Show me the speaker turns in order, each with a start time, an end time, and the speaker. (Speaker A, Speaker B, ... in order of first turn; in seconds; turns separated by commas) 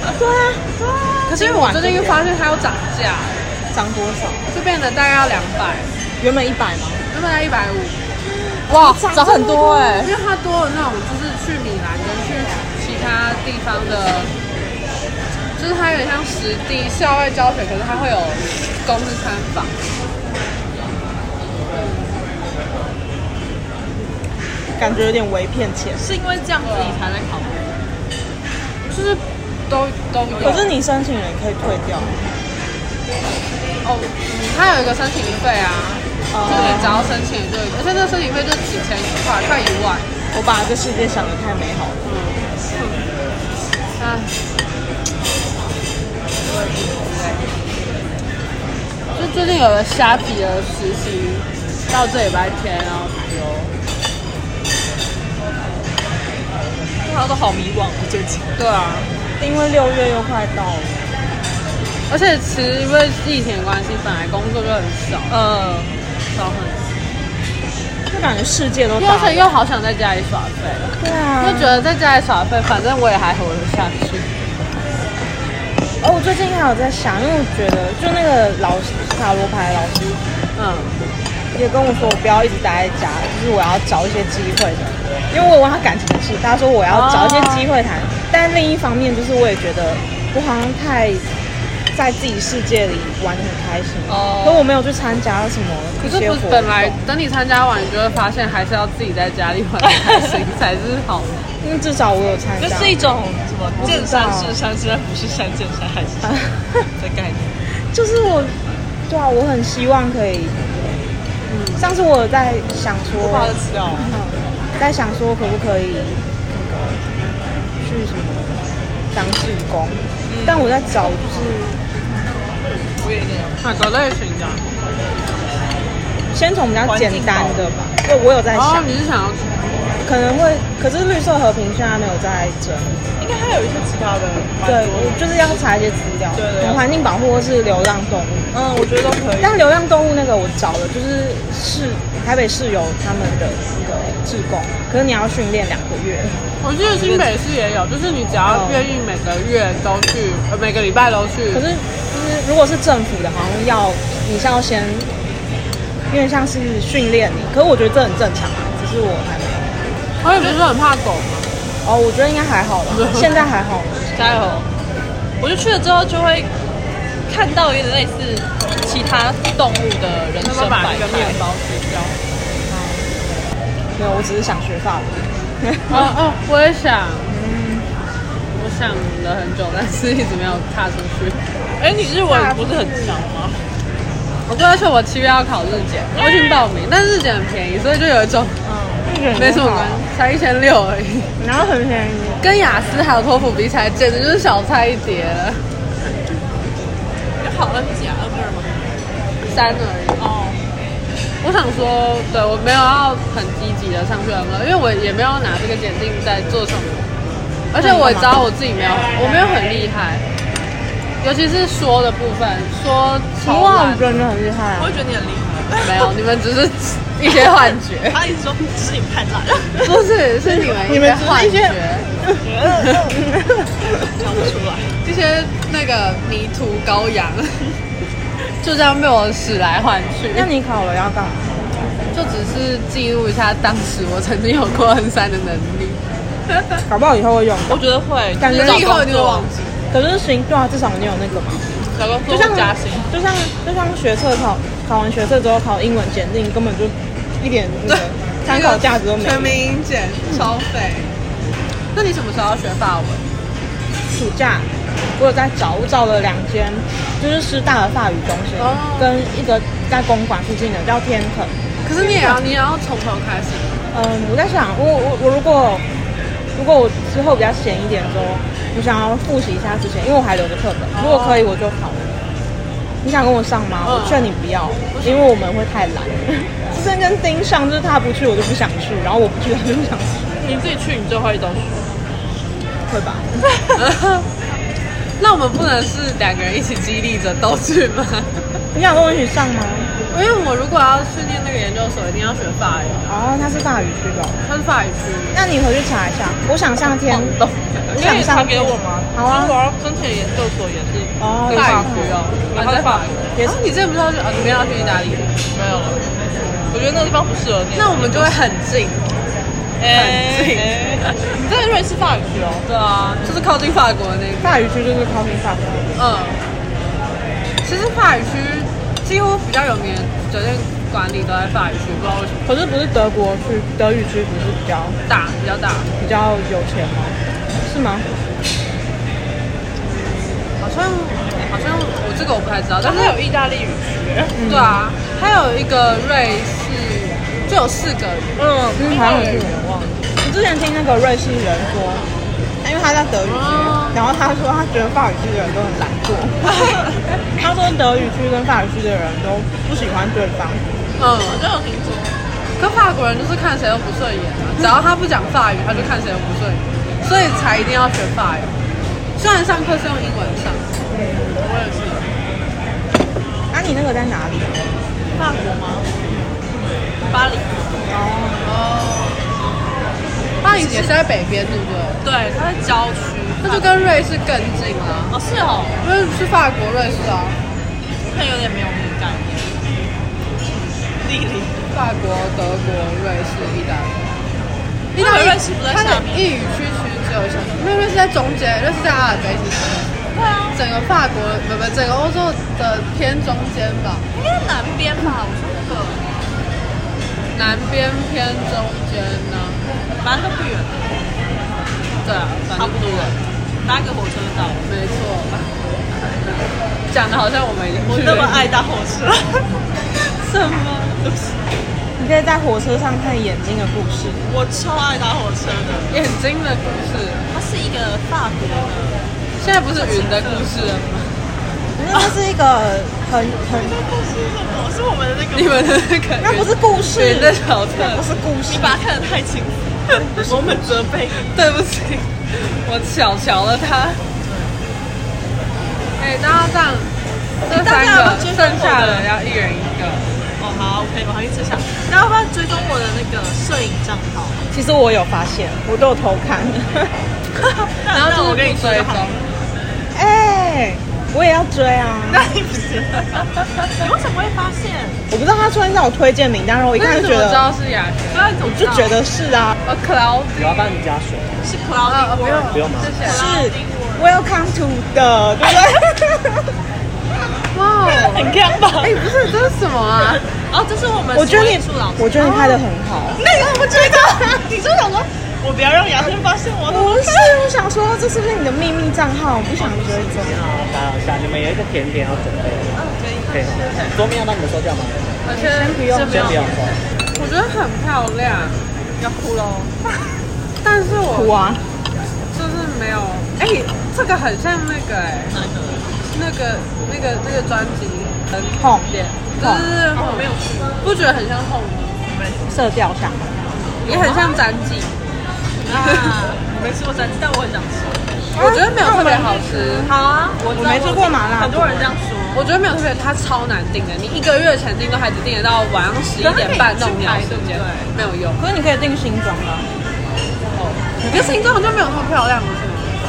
Speaker A: 0.1-0.7, Speaker B: 0.8-1.2, Speaker A: 1.3-2.3, Speaker C: 1.3-3.5, Speaker A: 3.7-4.5, Speaker C: 4.5-5.9, Speaker A: 6.2-7.0, Speaker C: 7.1-8.0, Speaker A: 8.2-10.1, Speaker C: 8.7-14.3, Speaker C: 15.6-19.8, Speaker C: 21.7-22.2, Speaker A: 24.8-26.0, Speaker B: 26.0-27.7, Speaker C: 26.6-27.0, Speaker C: 28.9-30.7, Speaker A: 30.4-32.1, Speaker C: 33.8-40.1, Speaker A: 36.3-37.1, Speaker B: 36.5-37.0, Speaker A: 40.3-42.0, Speaker C: 42.0-43.0, Speaker C: 44.0-44.3, Speaker C: 46.4-47.5, Speaker C: 49.1-53.7, Speaker B: 57.0-58.5, Speaker C: 58.6-59.1, Speaker A: 59.4-61.1, Speaker C: 62.1-65.3, Speaker B: 65.3-65.9, Speaker C: 66.3-66.9, Speaker A: 68.1-69.5, Speaker C: 69.0-74.3, Speaker A: 71.0-71.9, Speaker A: 76.0-80.2, Speaker C: 80.5-81.0, Speaker A: 81.5-91.2, Speaker C: 86.9-87.6, Speaker A: 91.9-97.0, Speaker B: 94.1-94.7, Speaker C: 96.0-101.3, Speaker B: 100.0-100.3, Speaker A: 101.6-103.0, Speaker B: 102.6-106.4, Speaker A: 103.8-104.6, Speaker A: 106.2-106.8, Speaker B: 107.0-107.6, Speaker A: 107.8-108.5, Speaker A: 109.1-110.9, Speaker C: 111.5-111.8, Speaker A: 111.8-117.0, Speaker B: 113.2-114.2, Speaker A: 117.8-121.8, Speaker B: 120.3-120.8, Speaker B: 123.0-123.6, Speaker C: 123.6-124.6, Speaker A: 126.3-128.9, Speaker B: 126.8-127.7, Speaker C: 128.5-129.8, Speaker A: 130.0-133.0, Speaker B: 133.2-135.6, Speaker A: 134.6-138.5, Speaker B: 136.3-136.8, Speaker B: 138.5-139.6, Speaker A: 139.4-146.4, Speaker C: 146.6-151.6, Speaker B: 146.9-147.3, Speaker A: 148.5-148.9, Speaker A: 151.5-155.1, Speaker A: 156.1-159.8, Speaker C: 160.2-161.5, Speaker A: 161.8-164.4, Speaker C: 162.9-163.3, Speaker B: 164.1-164.7, Speaker B: 165.4-166.5, Speaker B: 167.3-171.4, Speaker C: 170.4-172.2, Speaker A: 172.7-173.1, Speaker A: 173.9-176.1, Speaker C: 175.9-177.3, Speaker A: 177.3-177.9, Speaker C: 178.5-181.4, Speaker B: 181.8-183.6, Speaker A: 182.2-183.2, Speaker C: 184.5-188.6, Speaker B: 186.1-186.6, Speaker B: 188.7-189.0, Speaker A: 189.0-190.1, Speaker C: 189.3-191.3, Speaker A: 191.4-192.4, Speaker C: 192.4-195.6, Speaker B: 197.4-198.8, Speaker C: 199.4-200.2, Speaker B: 200.2-200.6, Speaker C: 201.4-207.1, Speaker C: 207.7-210.2, Speaker A: 207.8-208.5, Speaker C: 211.2-214.1, Speaker A: 213.4-214.9, Speaker B: 214.8-216.1, Speaker C: 215.8-218.2, Speaker B: 218.1-220.0, Speaker C: 219.8-222.1, Speaker A: 220.5-223.7, Speaker B: 222.4-223.1, Speaker B: 224.0-224.9, Speaker C: 225.0-227.7, Speaker C: 228.6-230.5, Speaker A: 230.3-231.7, Speaker C: 232.1-236.8, Speaker A: 236.9-237.8, Speaker B: 237.7-239.6, Speaker A: 238.4-239.0, Speaker C: 238.5-239.6, Speaker A: 239.9-241.7, Speaker B: 241.9-243.1, Speaker A: 242.3-249.5, Speaker C: 247.9-251.1, Speaker C: 251.9-253.2, Speaker A: 254.1-262.4, Speaker C: 258.6-259.1, Speaker C: 261.8-263.8, Speaker A: 263.9-265.8, Speaker A: 266.6-272.2, Speaker C: 270.9-271.4, Speaker A: 273.0-280.4, Speaker C: 273.8-274.3, Speaker C: 274.9-275.2, Speaker B: 280.3-282.0, Speaker A: 282.9-283.5, Speaker C: 283.8-284.2, Speaker C: 285.2-288.4, Speaker A: 288.7-289.9, Speaker C: 290.1-293.1, Speaker A: 293.1-294.5, Speaker C: 294.4-295.4, Speaker A: 295.3-297.4, Speaker B: 297.9-303.4, Speaker A: 297.9-299.6, Speaker A: 301.2-302.2, Speaker C: 301.5-305.3, Speaker B: 305.5-306.1, Speaker B: 306.7-308.4, Speaker C: 307.7-309.1, Speaker B: 309.8-312.7, Speaker C: 309.9-311.1, Speaker C: 312.6-314.5, Speaker A: 314.4-315.9, Speaker C: 315.9-316.4, Speaker C: 317.6-322.2, Speaker B: 321.9-322.5, Speaker A: 322.4-325.0, Speaker C: 325.1-325.9, Speaker A: 326.0-328.1, Speaker C: 329.8-333.2, Speaker B: 332.8-334.3, Speaker A: 334.3-334.8, Speaker C: 334.4-339.6, Speaker B: 338.4-338.9, Speaker A: 338.8-339.6, Speaker B: 339.5-340.0, Speaker A: 340.2-342.0, Speaker A: 342.6-346.8, Speaker C: 343.2-344.0, Speaker A: 347.3-350.7, Speaker C: 351.0-351.4, Speaker B: 351.2-352.2, Speaker C: 352.6-358.6, Speaker C: 359.2-360.7, Speaker A: 360.9-361.3, Speaker C: 361.3-362.1, Speaker A: 363.5-364.7, Speaker B: 365.1-365.9, Speaker B: 367.0-367.9, Speaker A: 367.9-368.6, Speaker C: 368.4-369.2, Speaker C: 370.4-372.0, Speaker B: 370.5-370.9, Speaker B: 372.0-373.7, Speaker C: 373.4-375.1, Speaker B: 375.1-375.8, Speaker C: 375.8-377.4, Speaker B: 378.0-379.7, Speaker B: 381.0-381.6, Speaker C: 381.7-384.1, Speaker B: 384.9-386.3, Speaker C: 384.9-389.9, Speaker B: 390.1-390.6, Speaker C: 390.5-394.0, Speaker B: 394.1-396.1, Speaker C: 397.3-399.6, Speaker B: 400.0-401.0, Speaker C: 402.0-403.2, Speaker B: 402.5-404.6, Speaker C: 404.6-408.5, Speaker B: 407.9-409.5, Speaker C: 410.1-411.0, Speaker B: 411.0-411.4, Speaker A: 412.0-414.2, Speaker B: 414.2-415.9, Speaker C: 415.9-417.2, Speaker B: 417.3-419.0, Speaker C: 419.4-421.1, Speaker B: 419.7-420.8, Speaker A: 421.8-423.8, Speaker B: 423.4-425.8, Speaker C: 425.3-428.0, Speaker A: 426.2-428.8, Speaker B: 428.4-429.6, Speaker B: 430.2-431.2, Speaker C: 431.2-434.0, Speaker B: 434.2-434.5, Speaker C: 436.0-436.9, Speaker C: 437.4-440.1, Speaker B: 437.5-439.1, Speaker B: 440.4-444.4, Speaker A: 444.5-446.9, Speaker B: 447.4-449.2, Speaker C: 447.9-449.2, Speaker A: 449.9-452.3, Speaker B: 452.1-455.0, Speaker A: 455.1-457.4, Speaker C: 456.8-458.3, Speaker B: 458.1-459.0, Speaker A: 458.4-459.6, Speaker C: 459.6-460.6, Speaker D: 460.3-461.4, Speaker B: 461.4-464.2, Speaker C: 461.9-463.2, Speaker D: 462.5-463.0, Speaker A: 463.0-466.5, Speaker C: 467.5-470.2, Speaker B: 467.8-469.0, Speaker B: 470.5-472.6, Speaker A: 471.1-473.2, Speaker B: 473.2-477.4, Speaker A: 476.6-480.4, Speaker B: 479.6-480.4, Speaker D: 480.2-485.2, Speaker B: 482.7-484.0, Speaker C: 485.2-486.4, Speaker A: 485.3-486.4, Speaker D: 486.0-486.8, Speaker C: 487.1-488.6, Speaker B: 489.0-490.2, Speaker C: 490.6-491.4, Speaker A: 491.1-491.6, Speaker C: 492.3-495.4, Speaker B: 495.3-495.9, Speaker C: 496.1-500.2, Speaker A: 498.6-499.7, Speaker B: 499.9-500.8, Speaker C: 500.8-502.0, Speaker B: 502.1-502.7, Speaker A: 502.5-503.5, Speaker B: 503.8-504.4, Speaker C: 503.8-504.9, Speaker B: 505.7-508.1, Speaker C: 505.7-506.1, Speaker A: 508.3-509.9, Speaker C: 508.4-509.9, Speaker B: 509.8-512.5, Speaker A: 510.5-511.9, Speaker C: 512.3-518.4, Speaker B: 516.2-518.0, Speaker A: 518.4-519.7, Speaker C: 520.5-523.0, Speaker A: 521.0-521.5